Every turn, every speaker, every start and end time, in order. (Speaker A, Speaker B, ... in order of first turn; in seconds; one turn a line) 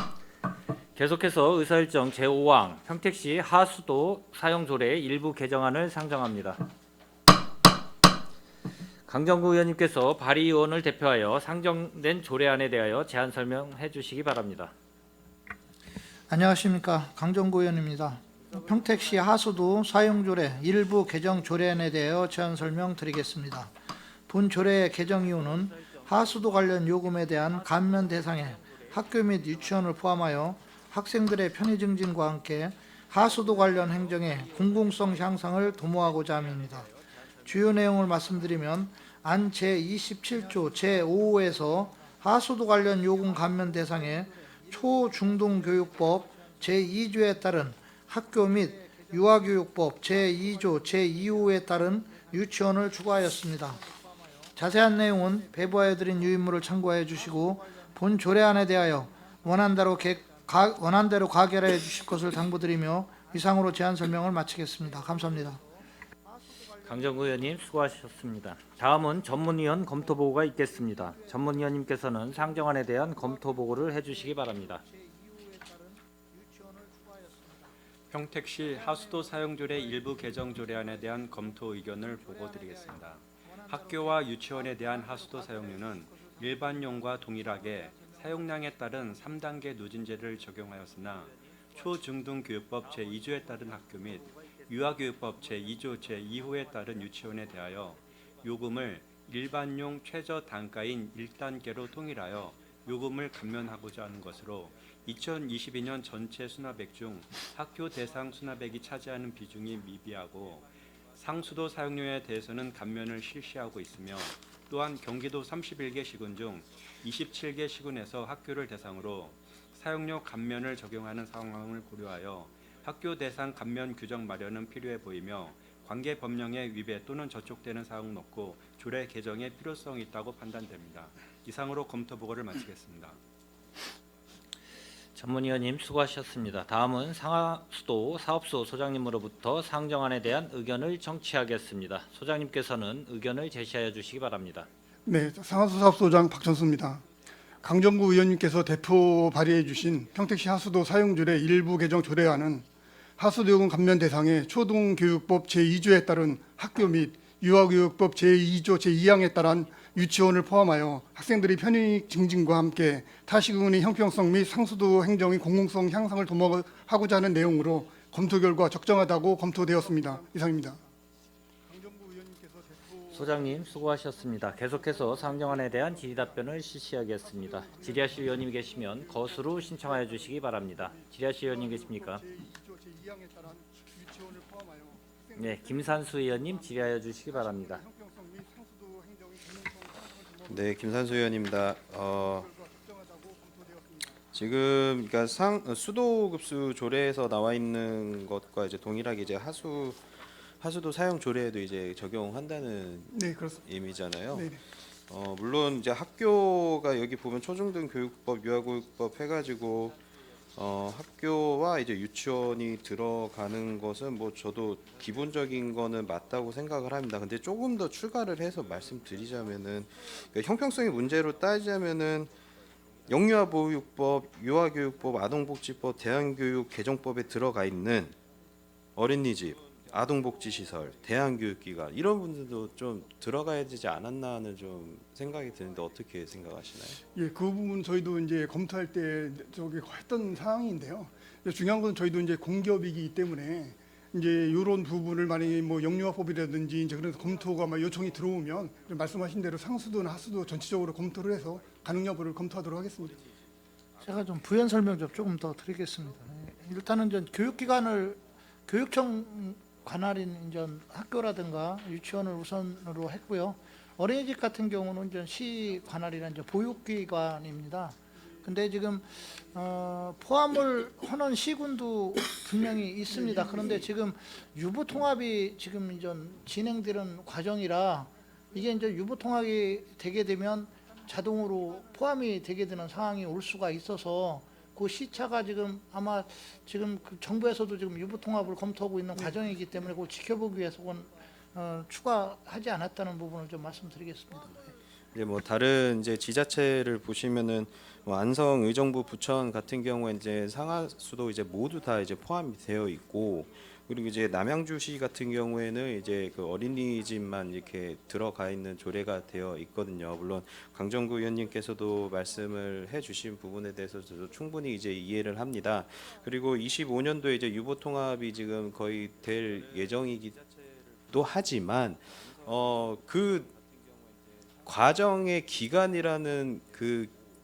Speaker A: 0.9-6.6
Speaker A: 9.1-14.7
Speaker B: 16.3-23.7
Speaker B: 24.3-36.9
Speaker B: 37.4-65.7
Speaker A: 66.8-74.8
Speaker B: 70.8-77.7
Speaker C: 78.1-133.2
Speaker B: 78.6-81.0
Speaker B: 82.2-86.6
Speaker A: 135.2-144.7
Speaker D: 145.1-147.1
Speaker D: 147.6-152.7
Speaker D: 153.2-170.8
Speaker D: 171.7-173.6
Speaker A: 173.1-182.2
Speaker D: 174.8-176.2
Speaker D: 177.6-180.3
Speaker D: 180.8-190.6
Speaker A: 185.4-187.8
Speaker E: 190.5-192.5
Speaker D: 192.4-194.1
Speaker E: 194.3-203.1
Speaker D: 203.1-203.6
Speaker E: 203.7-210.0
Speaker D: 204.3-204.6
Speaker E: 210.6-222.3
Speaker E: 223.1-228.2
Speaker E: 229.0-237.0
Speaker D: 237.2-253.2
Speaker B: 254.0-294.7
Speaker D: 273.4-273.8
Speaker E: 295.1-320.4
Speaker E: 321.1-323.5
Speaker E: 324.6-327.2